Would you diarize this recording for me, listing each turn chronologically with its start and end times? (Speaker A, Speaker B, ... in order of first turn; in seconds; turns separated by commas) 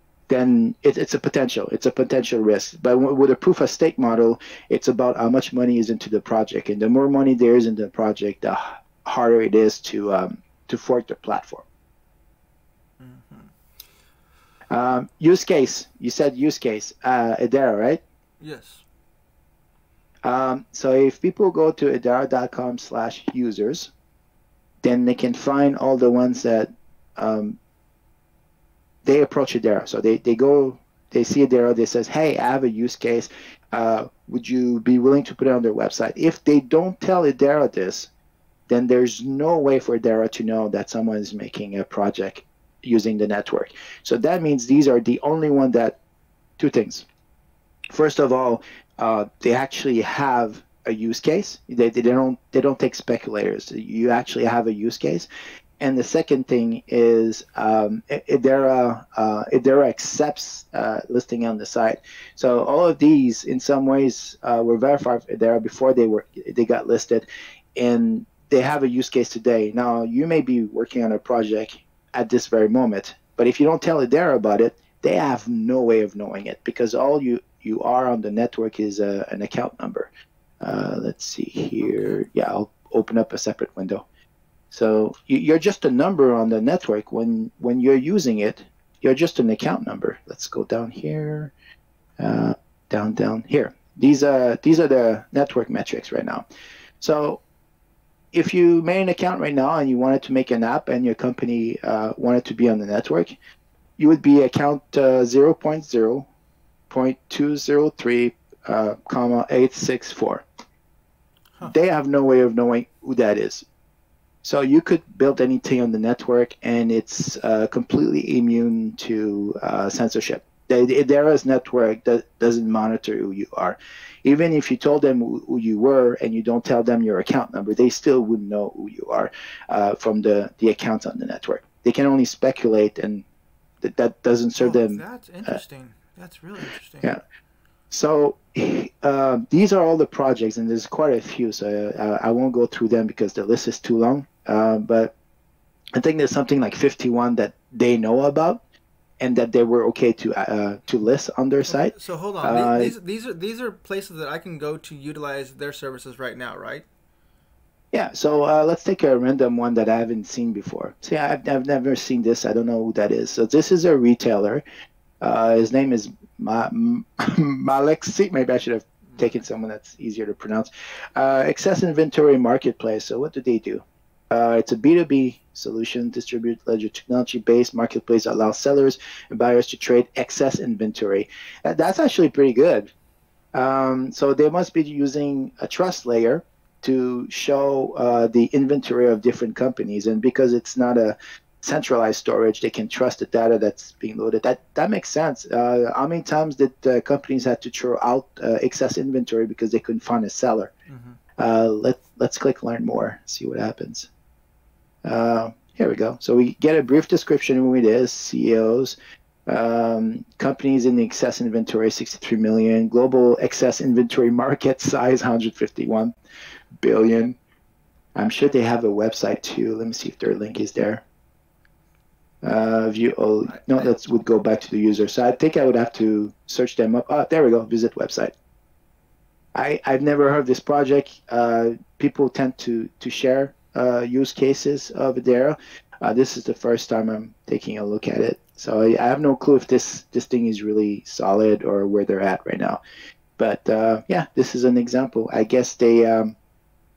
Speaker A: 0.3-11.6, Speaker B: 13.0-13.5, Speaker A: 14.7-18.0, Speaker B: 18.4-18.8, Speaker A: 20.2-23.9, Speaker A: 24.8-27.6, Speaker A: 29.0-38.1, Speaker A: 38.7-46.0, Speaker A: 46.6-47.0, Speaker A: 47.9-55.3, Speaker A: 55.8-80.1, Speaker A: 80.6-84.0, Speaker B: 81.8-82.2, Speaker A: 84.7-91.5, Speaker A: 92.2-96.4, Speaker A: 97.0-97.4, Speaker A: 98.3-103.3, Speaker A: 104.0-106.3, Speaker A: 106.9-110.4, Speaker A: 111.6-113.6, Speaker A: 114.4-133.2, Speaker A: 133.8-135.6, Speaker B: 134.6-137.1, Speaker A: 137.9-145.1, Speaker A: 145.9-148.6, Speaker A: 149.2-152.9, Speaker B: 151.7-156.8, Speaker A: 157.9-164.6, Speaker A: 165.2-182.9, Speaker B: 169.1-169.4, Speaker A: 183.5-200.7, Speaker B: 200.9-201.2, Speaker A: 201.4-204.1, Speaker A: 205.0-208.9, Speaker A: 209.5-216.1, Speaker A: 216.8-217.4, Speaker A: 218.1-221.0, Speaker A: 222.4-228.3, Speaker B: 223.5-223.9, Speaker A: 229.5-242.8, Speaker A: 243.4-246.3